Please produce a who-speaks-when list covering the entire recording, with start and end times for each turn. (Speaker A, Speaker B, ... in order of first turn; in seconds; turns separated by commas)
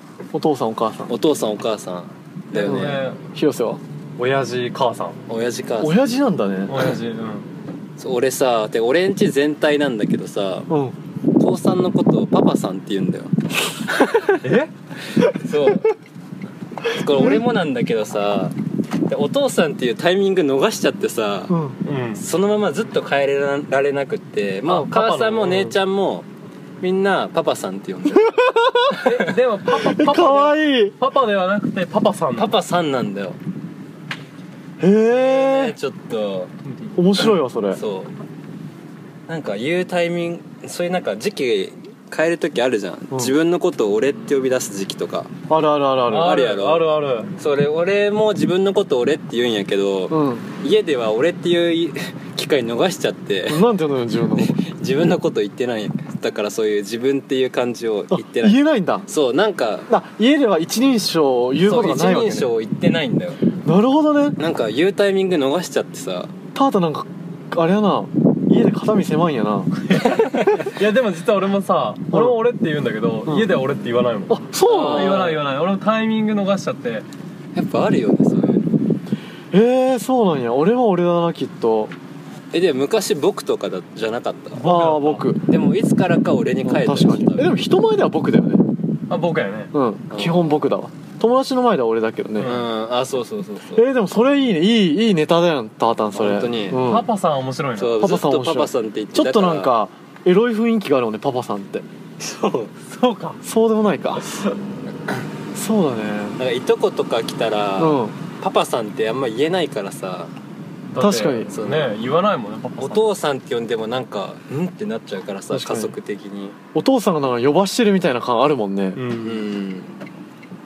Speaker A: 0.3-1.1, Speaker B: 1.1-3.0, Speaker C: 2.5-3.2, Speaker A: 2.6-3.8, Speaker C: 4.2-5.2, Speaker B: 5.3-6.0, Speaker A: 5.8-6.8, Speaker C: 6.7-7.5, Speaker B: 8.0-10.7, Speaker A: 10.7-10.9, Speaker B: 11.4-13.3, Speaker C: 14.4-14.7, Speaker B: 15.3-15.9, Speaker B: 16.9-21.5, Speaker A: 21.5-21.8, Speaker C: 21.8-22.2, Speaker B: 22.1-26.3, Speaker C: 24.6-25.7, Speaker B: 26.8-28.5, Speaker A: 28.2-29.0, Speaker C: 28.9-32.5, Speaker B: 29.0-29.3, Speaker A: 29.7-31.0, Speaker B: 32.3-33.4, Speaker A: 34.8-35.8, Speaker B: 35.1-36.5, Speaker A: 36.9-37.8, Speaker B: 37.7-38.1, Speaker B: 39.3-45.3, Speaker A: 45.5-46.4, Speaker C: 46.1-47.3, Speaker B: 46.1-53.7, Speaker A: 50.1-50.5, Speaker A: 53.5-54.6, Speaker B: 54.3-59.9, Speaker A: 58.1-59.1, Speaker A: 59.9-62.5, Speaker B: 61.6-63.4, Speaker A: 63.6-64.4, Speaker B: 64.4-66.3, Speaker A: 66.5-69.8, Speaker C: 69.9-77.0, Speaker A: 72.1-72.4, Speaker A: 74.3-75.4, Speaker B: 74.8-75.4, Speaker B: 77.5-78.7, Speaker A: 79.5-81.9, Speaker B: 82.5-84.7, Speaker C: 84.5-85.3, Speaker A: 84.6-85.4, Speaker B: 85.5-87.5, Speaker A: 86.6-88.6, Speaker C: 89.1-89.7, Speaker A: 89.7-92.5, Speaker B: 90.1-90.6, Speaker C: 92.4-92.6, Speaker B: 92.4-93.9, Speaker A: 93.7-97.1, Speaker B: 96.1-96.8, Speaker C: 96.8-98.0, Speaker B: 97.8-99.7, Speaker A: 98.0-101.8, Speaker B: 102.2-102.7, Speaker C: 102.9-103.4, Speaker A: 103.4-104.3, Speaker C: 104.2-104.5, Speaker A: 105.5-106.4, Speaker B: 106.4-110.3, Speaker A: 107.8-108.2, Speaker C: 110.9-113.1, Speaker A: 111.0-111.5, Speaker B: 111.5-112.0, Speaker B: 112.8-116.5, Speaker A: 115.5-115.9, Speaker A: 116.7-119.0, Speaker C: 118.9-119.4, Speaker B: 119.2-120.0